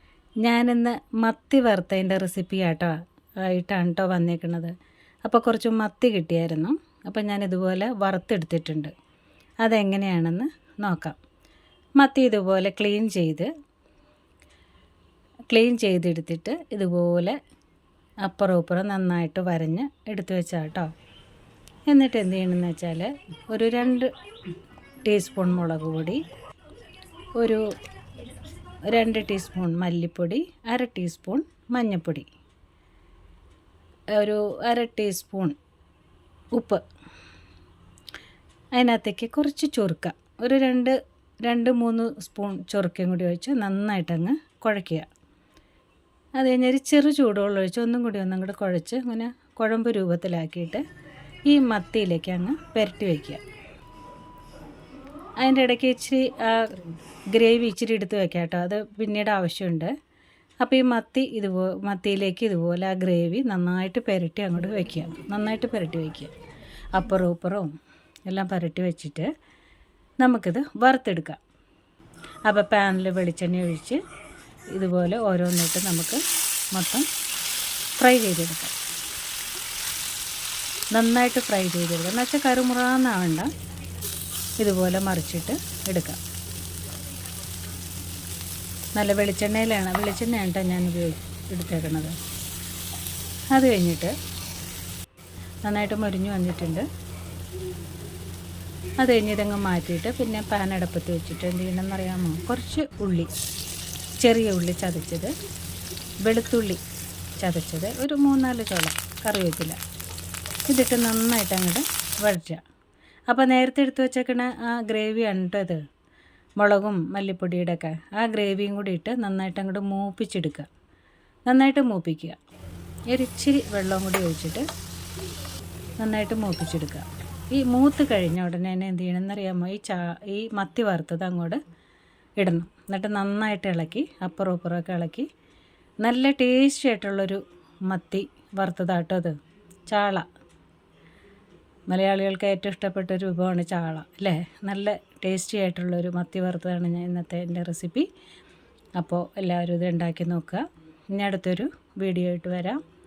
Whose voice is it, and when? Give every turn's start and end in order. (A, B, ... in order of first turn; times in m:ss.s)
0:00.4-0:04.7 A
0:05.2-0:08.9 A
0:09.6-0:11.2 A
0:12.0-0:13.5 A
0:15.5-0:17.4 A
0:18.2-0:20.9 A
0:21.9-0:24.1 A
0:25.0-0:26.2 A
0:27.4-0:27.6 A
0:28.9-0:32.3 A
0:34.1-0:35.6 A
0:36.5-0:36.8 A
0:38.7-0:45.1 A
0:46.4-0:50.8 A
0:51.5-0:53.4 A
0:55.4-0:59.9 A
1:00.6-1:06.3 A
1:06.9-1:07.7 A
1:08.3-1:09.3 A
1:10.2-1:11.4 A
1:12.4-1:14.0 A
1:14.7-1:17.1 A
1:18.0-1:18.7 A
1:20.9-1:23.5 A
1:24.6-1:26.2 A
1:29.0-1:32.1 A
1:33.5-1:34.1 A
1:35.6-1:36.8 A
1:39.0-1:43.3 A
1:44.2-1:45.3 A
1:46.2-1:46.8 A
1:47.4-1:49.8 A
1:50.7-1:52.6 A
1:53.3-1:55.8 A
1:56.6-2:00.7 A
2:01.5-2:02.4 A
2:03.1-2:04.6 A
2:06.0-2:11.6 A
2:12.4-2:15.3 A
2:16.0-2:19.4 A
2:19.9-2:20.2 A
2:21.9-2:28.1 A
2:29.0-2:32.8 A